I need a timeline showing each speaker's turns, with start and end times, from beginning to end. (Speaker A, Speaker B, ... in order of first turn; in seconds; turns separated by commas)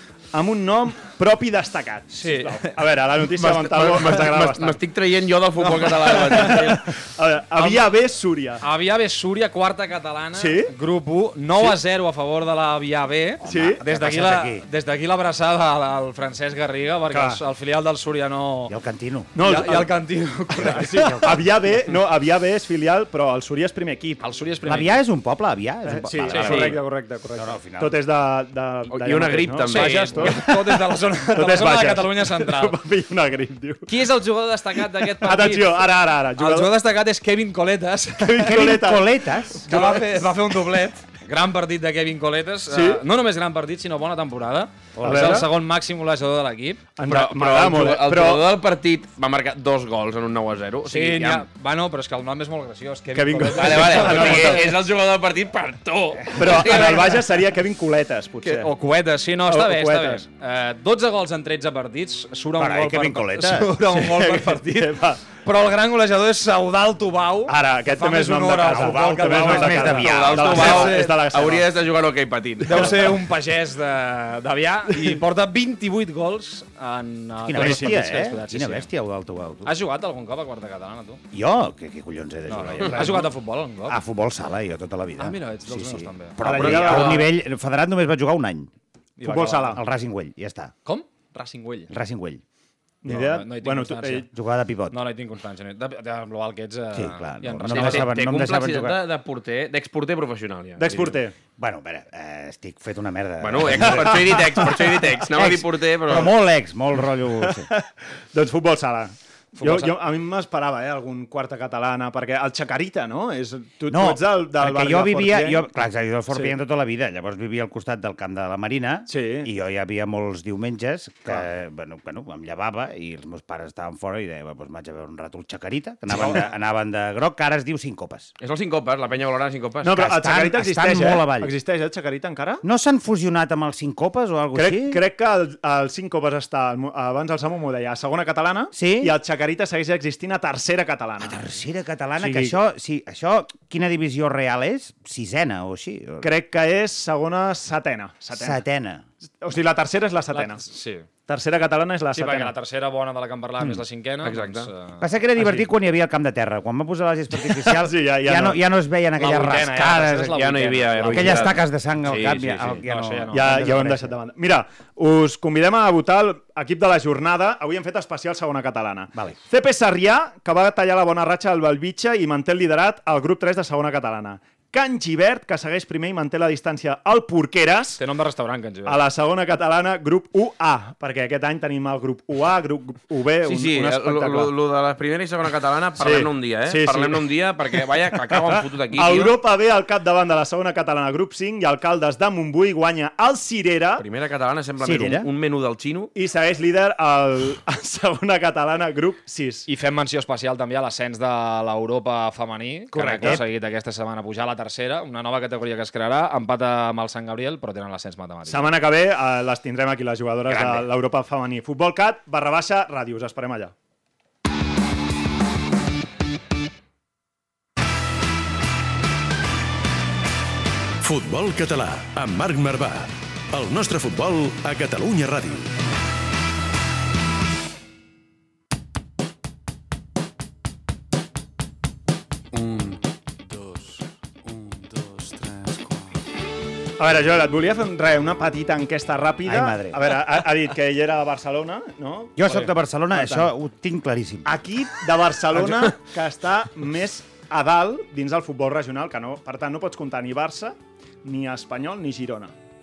Speaker A: 0.3-4.8, Speaker B: 2.1-2.7, Speaker C: 3.3-6.8, Speaker B: 5.8-6.8, Speaker A: 6.3-8.6, Speaker B: 7.6-7.9, Speaker B: 8.6-18.8, Speaker A: 10.4-10.7, Speaker D: 13.4-14.7, Speaker A: 13.4-13.8, Speaker A: 17.1-17.4, Speaker D: 18.7-19.3, Speaker A: 19.4-19.9, Speaker B: 19.4-21.5, Speaker A: 20.5-24.2, Speaker D: 20.8-21.3, Speaker B: 24.2-25.0, Speaker D: 24.7-26.8, Speaker A: 26.0-33.9, Speaker B: 26.2-26.8, Speaker C: 26.4-26.8, Speaker D: 27.4-28.0, Speaker C: 28.9-30.4, Speaker B: 29.7-32.8, Speaker B: 33.9-38.7, Speaker A: 35.2-36.7, Speaker A: 38.2-40.3, Speaker D: 38.4-39.6, Speaker B: 39.7-46.8, Speaker A: 42.7-43.0, Speaker D: 45.0-45.5, Speaker A: 45.0-45.5, Speaker A: 47.0-48.5, Speaker C: 47.0-51.5, Speaker B: 50.9-54.7, Speaker A: 53.1-54.7, Speaker C: 53.5-57.3, Speaker A: 56.4-58.7, Speaker B: 56.7-57.1, Speaker B: 58.4-71.2, Speaker A: 59.5-60.2, Speaker D: 62.6-63.7, Speaker A: 63.8-65.2, Speaker A: 67.5-71.7, Speaker D: 68.7-70.7, Speaker C: 70.0-73.2, Speaker B: 72.6-78.9, Speaker D: 77.4-79.8, Speaker A: 77.5-78.0, Speaker B: 79.7-81.2, Speaker D: 81.3-83.3, Speaker B: 82.5-84.0, Speaker D: 83.9-88.7, Speaker B: 85.2-86.4, Speaker A: 86.4-87.3, Speaker C: 86.5-87.3, Speaker B: 89.2-89.8, Speaker A: 89.2-89.8, Speaker D: 89.7-90.7, Speaker B: 90.8-91.9, Speaker D: 91.9-92.4, Speaker A: 93.0-94.3, Speaker B: 93.1-94.3, Speaker D: 94.3-95.0, Speaker B: 94.9-98.1, Speaker D: 96.9-99.0, Speaker C: 97.7-101.2, Speaker A: 100.8-101.3, Speaker D: 101.6-107.7, Speaker C: 103.4-106.3, Speaker A: 103.7-105.0, Speaker A: 107.4-115.6, Speaker B: 109.6-110.0, Speaker D: 113.9-128.3, Speaker A: 119.1-119.5, Speaker A: 126.1-126.4, Speaker C: 128.4-130.0, Speaker A: 129.8-132.6, Speaker D: 129.9-131.5, Speaker D: 132.6-135.0, Speaker A: 134.6-141.4, Speaker D: 138.7-139.2, Speaker D: 141.2-146.3, Speaker A: 142.2-142.6, Speaker A: 146.2-148.6, Speaker D: 148.3-149.0, Speaker A: 149.4-150.6, Speaker B: 150.3-151.1, Speaker A: 151.3-152.5, Speaker B: 152.1-155.0, Speaker C: 154.2-154.7, Speaker D: 155.0-160.4, Speaker A: 155.4-155.7, Speaker A: 157.4-158.6, Speaker B: 159.2-161.6, Speaker C: 160.2-162.8, Speaker D: 161.1-164.2, Speaker B: 162.8-163.7, Speaker A: 163.3-178.0, Speaker B: 178.0-179.0, Speaker A: 178.9-184.5, Speaker C: 183.4-189.4, Speaker A: 186.0-187.2, Speaker A: 188.9-194.0, Speaker C: 194.0-196.1, Speaker D: 194.8-195.3, Speaker A: 196.2-199.7, Speaker B: 199.7-208.7, Speaker A: 202.9-203.4, Speaker A: 208.5-213.7, Speaker E: 221.0-225.7, Speaker A: 237.0-243.5, Speaker D: 239.4-240.2, Speaker D: 242.4-244.5, Speaker A: 244.4-252.5